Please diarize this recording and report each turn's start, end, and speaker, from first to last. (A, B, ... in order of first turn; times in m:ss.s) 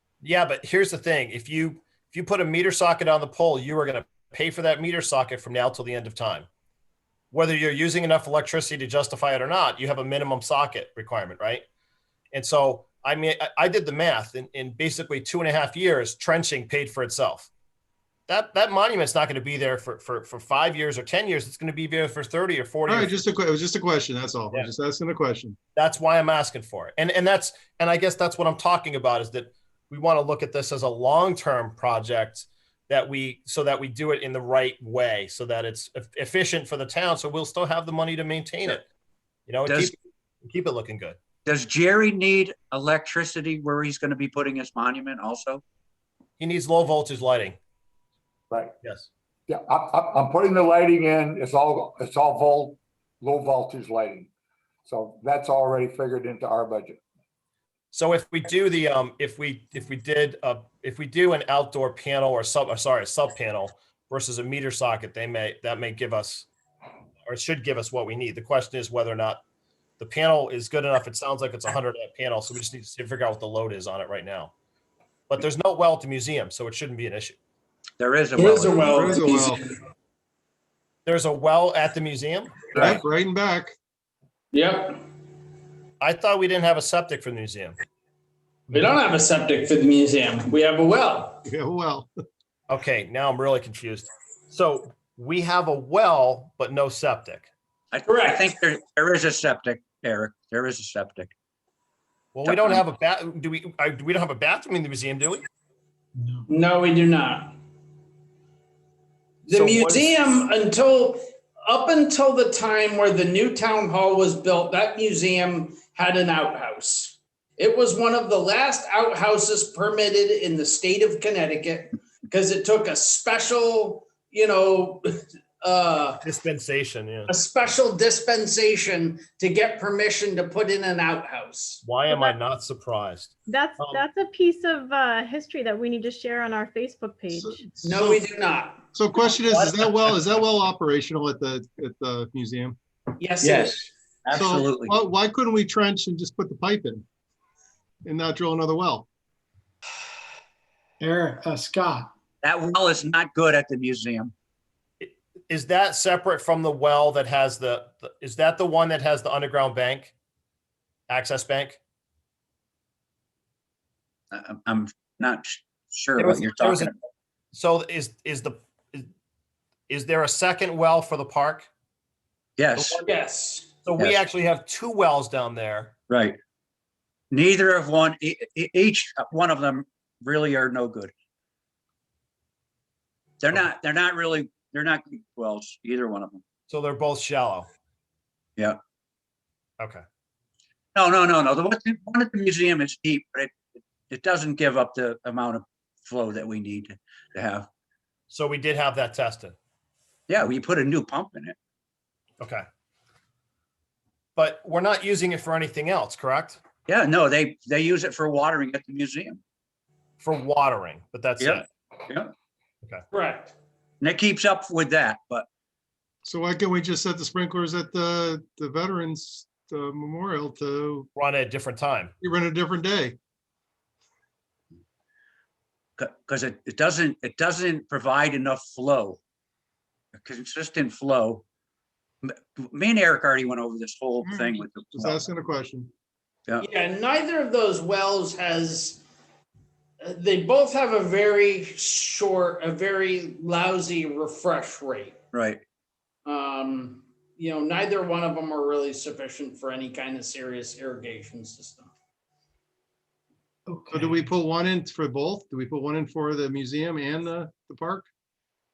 0:00.2-0:06.5 A
0:07.3-0:11.6 A
0:12.3-0:17.5 A
0:18.3-0:23.3 A
0:22.9-0:25.6 B
0:25.7-0:38.8 A
0:39.5-0:41.2 A
0:39.7-0:39.9 C
0:41.4-0:45.6 C
0:46.4-0:47.6 A
0:48.8-0:49.1 A
0:49.5-0:54.3 D
0:54.9-0:57.0 D
0:57.9-1:06.5 A
1:07.2-1:09.4 A
1:10.0-1:14.5 A
1:15.3-1:17.4 A
1:18.0-1:19.0 C
1:18.4-1:19.6 B
1:18.4-1:19.7 E
1:21.0-1:22.6 A
1:22.7-1:23.7 B
1:24.5-1:25.0 E
1:26.0-1:27.8 A
1:28.7-1:31.4 E
1:31.4-1:32.1 B
1:32.7-1:37.5 A
1:37.9-1:41.3 C
1:38.0-1:38.5 E
1:42.3-1:45.4 A
1:42.4-1:42.8 C
1:46.2-1:46.5 F
1:46.5-1:47.5 E
1:49.5-2:06.2 E
1:49.5-1:50.1 A
2:06.2-2:07.3 A
2:07.3-2:11.8 E
2:11.8-2:14.0 A
2:12.0-2:12.4 G
2:13.5-2:17.7 G
2:17.4-2:18.2 B
2:17.8-2:18.8 E
2:18.9-2:22.8 B
2:19.4-2:19.8 A
2:23.2-2:23.8 E
2:23.4-2:24.9 C
2:24.3-2:27.0 B
2:28.0-2:29.0 B
2:31.0-2:32.1 F
2:32.4-2:34.3 C
2:35.0-2:40.1 A
2:41.1-2:41.8 A
2:44.3-2:46.9 C
2:46.2-2:46.9 A
2:47.5-2:49.1 A
2:49.9-2:51.7 A
2:52.6-2:53.0 C
2:52.8-2:53.1 A
2:53.0-2:53.7 E
2:53.8-2:55.9 A
2:56.1-2:56.4 C
2:57.3-3:01.1 C
3:03.4-3:06.4 C
3:06.7-3:07.7 A
3:10.9-3:13.6 C
3:14.1-3:17.7 C
3:18.3-3:19.5 A
3:20.3-3:21.5 C
3:24.4-3:26.6 A
3:26.9-3:29.4 C
3:30.2-3:31.6 A
3:31.4-3:32.3 C
3:33.1-3:33.5 E
3:34.0-3:35.4 C
3:36.2-3:41.1 B
3:41.1-3:42.1 A
3:42.2-3:43.2 B
3:46.0-3:49.2 C
3:50.1-3:51.4 C
3:52.2-3:55.2 C
3:54.2-3:55.9 B
3:56.6-3:59.0 E
4:00.0-4:05.2 E
4:05.3-4:05.6 C
4:06.2-4:11.9 E
4:13.7-4:14.3 F
4:13.9-4:18.0 B